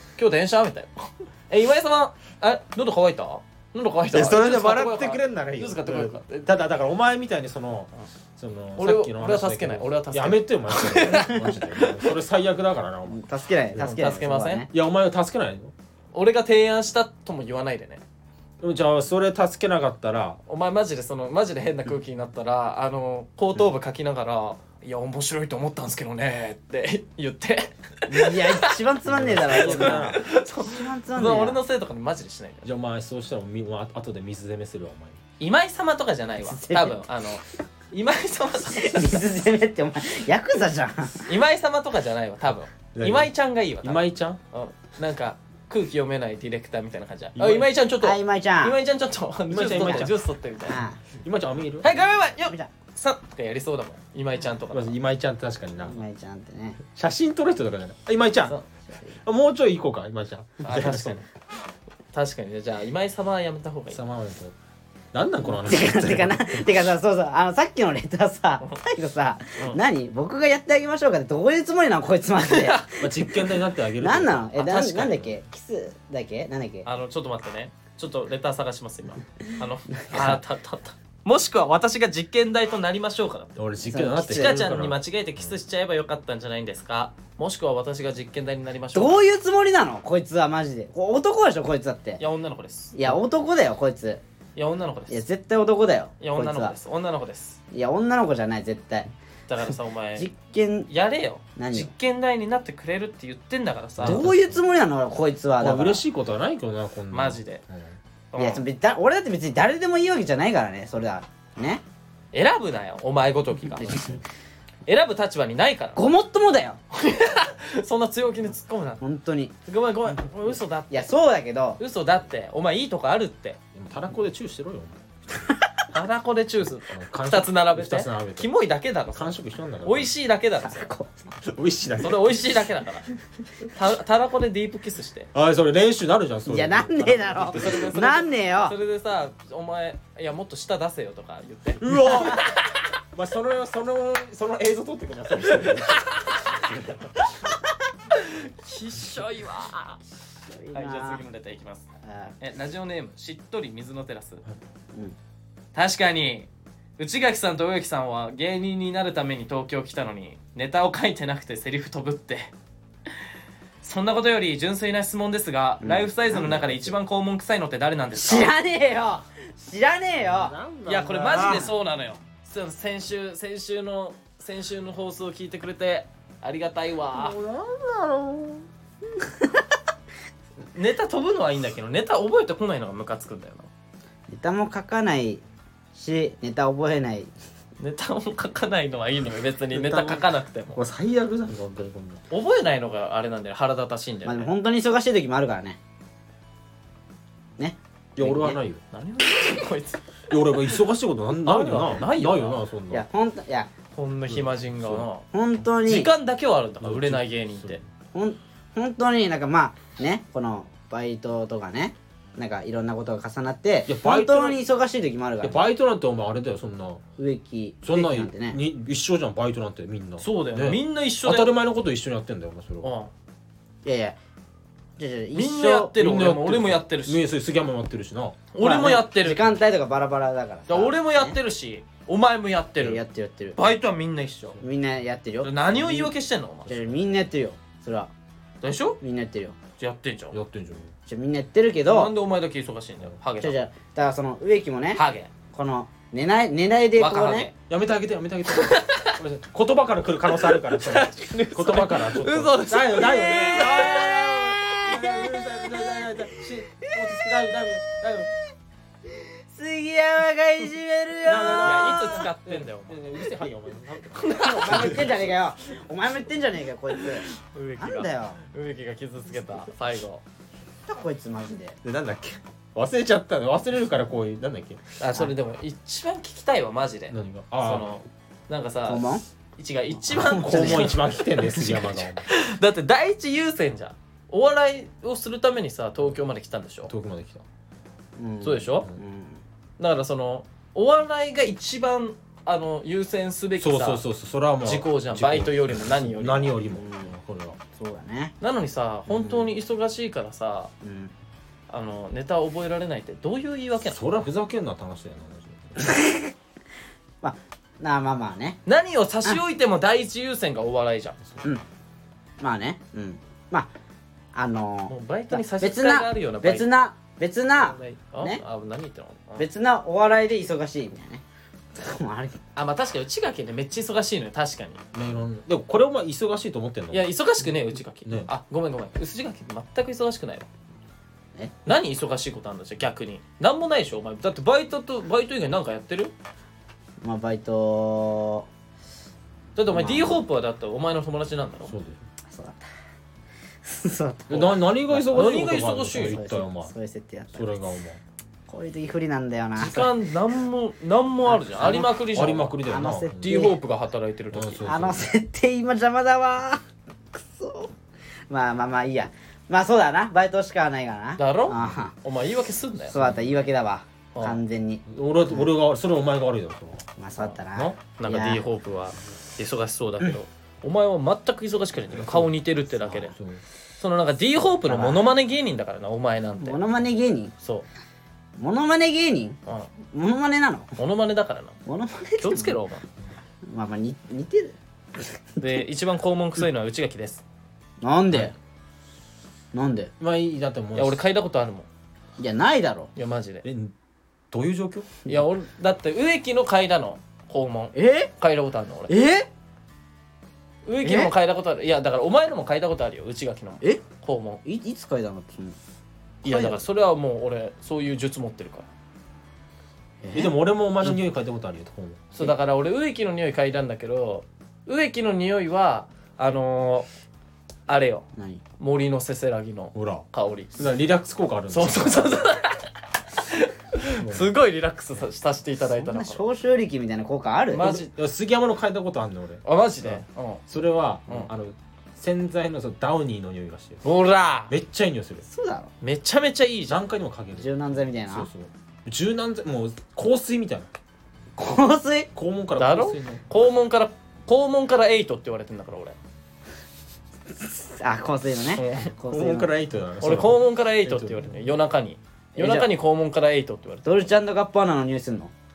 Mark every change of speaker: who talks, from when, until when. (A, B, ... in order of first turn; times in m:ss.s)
0:00.2-0:06.5 A
0:04.1-0:13.2 B
0:08.8-0:12.1 A
0:13.1-0:14.7 C
0:13.8-0:14.6 A
0:14.7-0:15.7 B
0:16.1-0:18.0 A
0:18.6-0:20.4 B
0:20.5-0:28.8 A
0:28.1-0:31.6 C
0:29.0-0:30.2 B
0:29.5-0:32.7 A
0:32.6-0:35.2 B
0:35.4-0:39.2 A
0:36.4-0:37.0 C
0:38.7-0:41.2 C
0:41.2-0:50.8 A
0:42.9-0:43.3 B
0:43.8-0:44.4 B
0:47.4-0:47.7 B
0:48.0-0:48.8 C
0:49.5-0:50.2 B
0:50.6-0:51.0 C
0:51.2-0:51.9 B
0:51.8-0:55.0 A
0:52.4-0:52.7 C
0:54.7-0:56.0 B
0:55.8-0:56.8 C
0:56.9-0:58.5 B
0:58.9-0:59.2 C
0:59.2-1:01.2 B
1:00.6-1:01.3 A
1:02.1-1:04.0 A
1:03.9-1:04.5 B
1:05.1-1:06.8 B
1:05.5-1:13.4 C
1:12.4-1:13.0 A
1:13.0-1:15.3 B
1:14.0-1:16.8 C
1:14.6-1:15.2 A
1:16.8-1:23.6 A
1:20.0-1:20.4 C
1:23.6-1:25.6 B
1:23.8-1:24.6 C
1:24.1-1:29.2 A
1:28.9-1:32.2 C
1:32.2-1:33.2 A
1:32.9-1:34.2 C
1:34.6-1:35.2 A
1:35.1-1:36.8 C
1:36.2-1:37.6 A
1:37.7-1:39.1 C
1:39.5-1:40.3 A
1:39.7-1:40.9 C
1:40.9-1:44.2 A
1:41.6-1:41.9 C
1:44.0-1:44.6 B
1:44.0-1:46.0 C
1:45.6-1:48.0 B
1:47.1-1:47.6 A
1:48.3-1:48.6 A
1:48.4-1:51.8 C
1:52.3-1:54.1 A
1:53.8-1:54.2 B
1:53.8-1:54.1 C
1:54.8-1:56.0 A
1:56.0-1:56.8 C
1:56.9-1:59.0 A
1:59.0-1:59.5 C
1:59.7-2:01.1 A
2:00.9-2:01.8 C
2:01.8-2:03.6 A
2:03.7-2:05.0 B
2:05.9-2:10.9 A
2:06.9-2:08.5 B
2:09.1-2:10.1 B
2:10.6-2:11.2 C
2:11.4-2:12.4 B
2:12.0-2:13.1 A
2:13.6-2:15.3 A
2:15.3-2:17.9 B
2:16.5-2:18.7 C
2:17.4-2:22.5 A
2:21.8-2:22.5 B
2:22.1-2:22.4 C
2:23.1-2:26.8 B
2:25.6-2:26.6 A
2:28.1-2:30.0 A
2:30.5-2:31.2 C
2:30.7-2:31.9 A
2:32.0-2:32.3 C
2:32.4-2:34.4 A
2:35.7-2:42.5 A
2:43.8-2:48.5 A
2:45.8-2:46.6 C
2:46.3-2:46.9 B
2:48.1-2:50.6 C
2:50.2-2:51.7 B
2:50.8-2:57.4 A
2:51.3-2:51.7 C
2:57.1-2:58.6 B
2:59.2-2:59.5 C
3:00.7-3:03.7 A
3:04.3-3:05.4 C
3:05.9-3:07.3 C
3:07.8-3:10.8 A
3:09.7-3:12.2 B
3:12.3-3:14.5 A
3:14.2-3:15.8 C
3:17.6-3:18.6 C
3:18.2-3:18.8 B
3:18.9-3:20.0 A
3:20.3-3:23.0 B
3:21.3-3:22.6 A
3:22.9-3:23.7 C
3:23.9-3:25.2 A
3:24.3-3:25.1 B
3:25.3-3:26.1 C
3:25.8-3:27.8 A
3:26.8-3:27.8 B
3:28.1-3:35.6 C
3:33.9-3:34.6 B
3:35.4-3:37.0 B
3:37.2-3:38.6 C
3:37.8-3:42.9 B
3:40.2-3:41.5 A
3:42.8-3:43.1 A
3:43.8-3:44.2 C
3:45.0-3:45.9 C
3:45.3-3:47.2 A
3:46.0-3:48.4 B
3:48.5-3:49.6 A
3:48.6-3:51.4 C
3:50.7-3:53.0 A
3:52.8-3:53.6 C
3:53.6-3:54.6 A
3:54.6-3:56.1 C
3:55.4-3:56.7 A
3:56.7-3:58.1 C
3:56.7-3:57.1 B
3:58.6-3:59.0 A
3:59.0-3:59.5 C
3:59.8-4:00.4 A
4:00.3-4:00.9 B
4:01.1-4:02.1 C
4:01.8-4:03.6 A
4:03.4-4:05.0 C
4:04.9-4:05.3 A
4:05.5-4:07.5 C
4:07.0-4:07.5 A
4:07.7-4:18.3 B
4:08.5-4:09.2 A
4:10.4-4:15.1 A
4:14.9-4:16.1 C
4:19.1-4:22.3 C
4:21.2-4:25.3 B
4:21.6-4:23.0 A
4:24.1-4:25.0 A
4:24.3-4:28.4 C
4:27.3-4:30.2 A
4:30.9-4:31.8 C
4:31.8-4:34.8 B
4:35.0-4:39.0 A
4:37.1-4:37.9 B
4:38.9-4:39.2 C
4:39.6-4:46.9 A
4:40.1-4:40.8 C
4:40.1-4:42.2 B
4:46.9-4:47.4 B
4:48.2-4:49.4 C
4:48.4-4:48.9 A
4:49.8-4:54.0 A
4:53.6-4:57.6 B
4:54.6-4:56.6 A
4:56.7-4:57.1 C
4:57.8-4:58.3 C
4:58.4-5:00.7 A
4:59.1-4:59.5 C
5:00.8-5:01.1 C
5:01.7-5:04.0 A
5:03.8-5:05.9 B
5:05.8-5:06.3 C
5:07.2-5:08.6 C
5:08.6-5:11.2 A
5:12.4-5:13.7 C
5:14.3-5:18.4 C
5:14.9-5:16.7 A
5:17.5-5:19.4 A
5:19.4-5:21.2 C
5:21.7-5:22.4 C
5:22.6-5:24.8 A
5:24.9-5:27.4 B
5:26.9-5:30.5 A
5:28.0-5:28.3 B
5:31.6-5:36.1 A
5:37.0-5:38.5 C
5:39.6-5:41.7 A
5:39.7-5:40.2 C
5:41.7-5:42.0 B
5:42.3-5:42.6 C
5:43.6-5:44.6 C
5:44.3-5:46.7 B
5:45.0-5:46.4 A
5:46.0-5:47.5 C
5:47.3-5:48.0 B
5:48.5-5:49.9 C
5:49.6-5:52.6 A
5:51.2-5:51.9 C
5:51.6-5:53.5 B
5:52.6-5:53.6 C
5:53.2-5:54.7 A
5:54.3-5:55.0 B
5:54.6-5:56.6 C
5:57.1-5:57.7 C
5:58.3-6:01.9 C
6:01.2-6:02.9 A
6:01.5-6:01.8 B
6:02.9-6:05.5 C
6:03.0-6:03.2 B
6:04.1-6:04.4 A
6:04.9-6:06.8 B
6:07.0-6:08.4 C
6:07.2-6:13.1 A
6:11.9-6:12.3 B
6:12.9-6:13.4 B
6:13.8-6:16.6 A
6:14.6-6:15.0 C
6:16.4-6:17.3 C
6:18.4-6:19.4 C
6:19.9-6:20.7 C
6:20.8-6:21.6 A
6:21.6-6:22.5 C
6:22.2-6:22.8 A
6:23.5-6:25.0 C
6:25.4-6:27.2 A
6:27.8-6:28.3 C
6:29.5-6:29.9 C
6:30.0-6:31.0 B
6:30.7-6:31.7 A
6:32.2-6:32.9 C
6:32.9-6:33.4 A
6:33.4-6:33.7 B
6:34.3-6:35.0 B
6:35.0-6:38.9 A
6:37.7-6:38.1 C
6:38.9-6:39.3 C
6:40.6-6:44.4 A
6:40.8-6:41.1 C
6:44.4-6:45.6 C
6:46.2-6:46.6 C
6:46.2-6:48.7 A
6:50.0-6:50.3 C
6:50.1-6:52.0 B
6:52.1-6:56.9 A
6:57.7-6:58.0 A
6:58.2-6:58.4 C
6:58.6-7:00.6 A
6:59.7-7:02.2 B
7:01.5-7:06.2 A
7:04.0-7:04.3 B
7:05.8-7:07.8 C
7:07.5-7:07.9 A
7:07.7-7:13.8 B
7:09.4-7:10.4 A
7:13.8-7:14.5 A
7:14.5-7:15.2 B
7:15.3-7:15.7 C
7:15.8-7:16.8 A
7:16.7-7:20.8 B
7:17.4-7:18.3 C
7:21.4-7:22.1 C
7:22.1-7:23.2 B
7:22.6-7:26.0 A
7:27.4-7:29.5 C
7:28.6-7:28.9 A
7:29.1-7:31.5 B
7:30.0-7:34.1 A
7:32.4-7:32.7 C
7:33.8-7:35.3 C